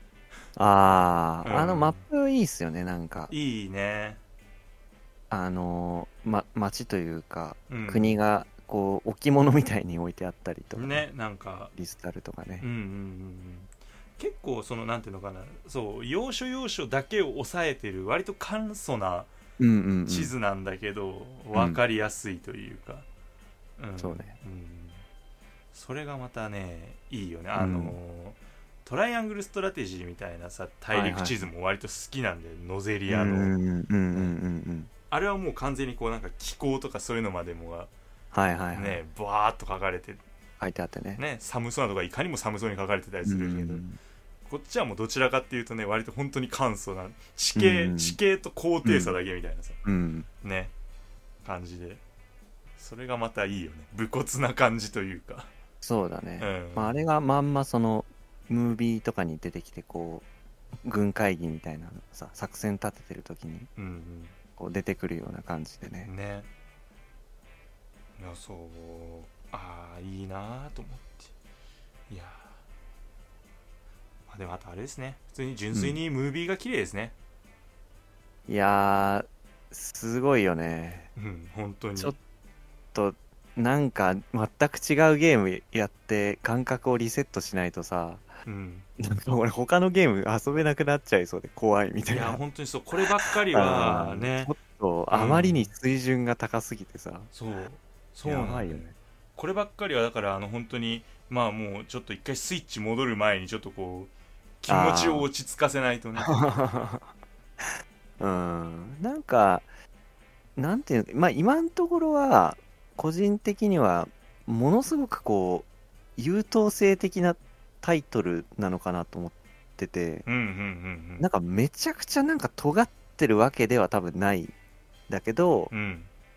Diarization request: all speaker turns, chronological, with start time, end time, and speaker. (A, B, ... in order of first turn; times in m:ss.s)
0:00.6-0:03.3 A
0:01.4-0:02.0 B
0:03.3-0:04.2 B
0:05.3-0:11.0 A
0:07.7-0:08.2 B
0:10.7-0:11.7 B
0:11.7-0:12.6 A
0:12.6-0:19.3 B
0:19.6-0:20.3 A
0:20.1-0:23.0 B
0:21.5-0:21.8 A
0:23.8-0:25.0 B
0:24.0-0:24.3 A
0:25.7-0:33.6 B
0:27.6-0:28.0 A
0:30.9-0:31.5 A
0:33.1-0:34.9 A
0:35.1-0:37.9 B
0:38.3-0:39.0 A
0:38.7-0:40.2 B
0:40.6-0:41.2 A
0:41.2-0:43.8 B
0:43.2-0:44.0 A
0:44.4-0:49.8 B
0:47.5-0:48.2 A
0:48.8-0:49.2 A
0:49.8-0:50.3 A
0:50.4-0:50.7 B
0:51.4-0:52.0 B
0:52.8-0:55.5 B
0:55.8-1:00.2 A
0:56.4-0:57.0 B
1:00.8-1:03.7 A
1:03.8-1:04.4 B
1:04.6-1:06.1 A
1:06.0-1:06.5 B
1:08.2-1:11.3 B
1:12.1-1:12.6 B
1:14.3-1:17.1 B
1:18.5-1:21.1 A
1:21.2-1:22.1 B
1:22.9-1:28.3 A
1:28.4-1:28.9 B
1:29.0-1:32.4 A
1:32.1-1:34.5 B
1:33.2-1:37.3 A
1:35.1-1:35.7 B
1:37.3-1:46.6 B
1:38.2-1:38.9 A
1:44.7-1:45.2 A
1:46.2-1:47.1 A
1:47.6-1:49.7 A
1:50.6-2:00.2 A
2:00.2-2:01.3 B
2:01.2-2:04.5 A
2:05.1-2:05.7 A
2:05.7-2:06.1 B